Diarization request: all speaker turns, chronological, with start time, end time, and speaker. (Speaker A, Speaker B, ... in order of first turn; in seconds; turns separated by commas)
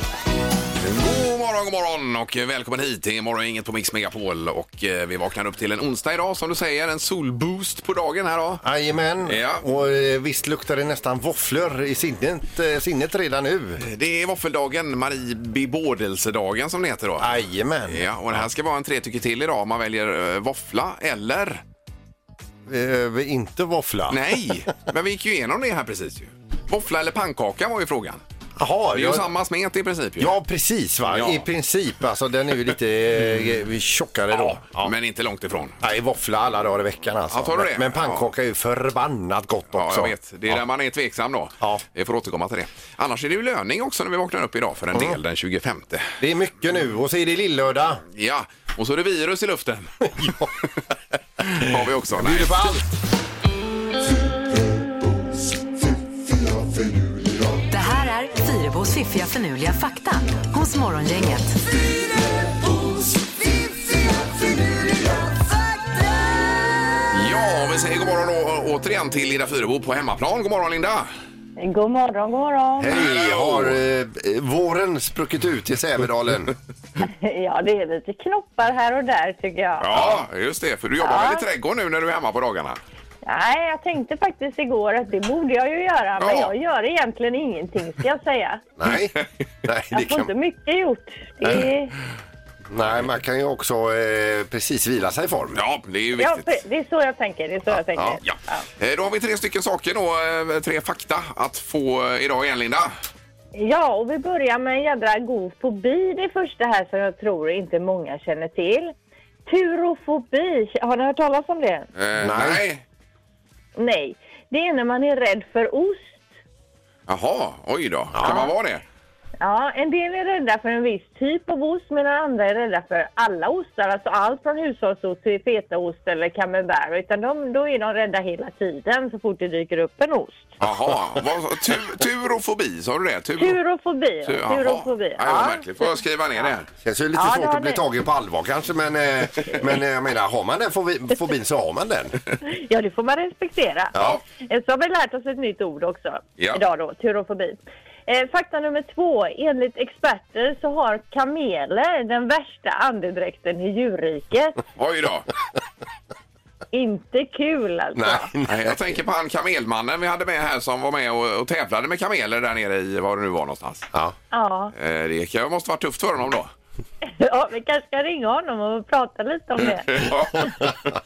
Speaker A: 0.8-8.6, Speaker B: 8.6-13.8, Speaker A: 9.2-9.6, Speaker A: 13.8-17.3, Speaker B: 17.2-18.4, Speaker A: 17.9-21.6, Speaker B: 22.6-24.4, Speaker A: 24.1-28.2, Speaker B: 28.6-29.2, Speaker A: 28.9-30.3, Speaker B: 30.2-34.9, Speaker A: 31.1-31.4, Speaker A: 34.3-35.8, Speaker B: 35.8-40.6, Speaker A: 37.3-38.3, Speaker A: 39.7-46.1, Speaker B: 44.9-45.2, Speaker B: 46.2-48.0, Speaker A: 48.1-49.9, Speaker B: 50.1-50.5, Speaker A: 51.5-52.7, Speaker B: 52.1-52.9, Speaker B: 56.4-57.4, Speaker C: 57.7-61.5, Speaker A: 67.1-71.1, Speaker D: 71.6-72.9, Speaker B: 72.8-76.5, Speaker A: 72.9-73.8, Speaker D: 77.0-79.9, Speaker A: 79.8-82.8, Speaker D: 81.0-81.4, Speaker D: 83.2-88.6, Speaker A: 86.2-86.5, Speaker B: 88.8-90.3, Speaker D: 89.9-91.9, Speaker B: 92.7-95.6, Speaker A: 95.5-96.6, Speaker D: 96.2-98.6, Speaker B: 97.7-98.2, Speaker A: 98.2-102.9, Speaker D: 103.5-108.9, Speaker D: 109.5-111.9, Speaker A: 112.0-112.8, Speaker B: 112.2-112.6, Speaker D: 113.8-116.1, Speaker A: 117.1-118.8, Speaker B: 118.1-118.5, Speaker D: 118.2-118.5, Speaker D: 119.4-130.6, Speaker A: 130.6-133.6, Speaker D: 133.4-135.9, Speaker A: 134.2-136.7, Speaker B: 136.8-142.2, Speaker D: 137.2-137.8, Speaker D: 142.4-154.6, Speaker B: 143.9-144.2, Speaker A: 154.8-155.3, Speaker D: 156.7-158.3, Speaker B: 157.9-158.9, Speaker A: 158.5-163.8, Speaker D: 164.3-164.7, Speaker A: 164.7-166.5, Speaker D: 167.0-169.9, Speaker A: 169.8-170.8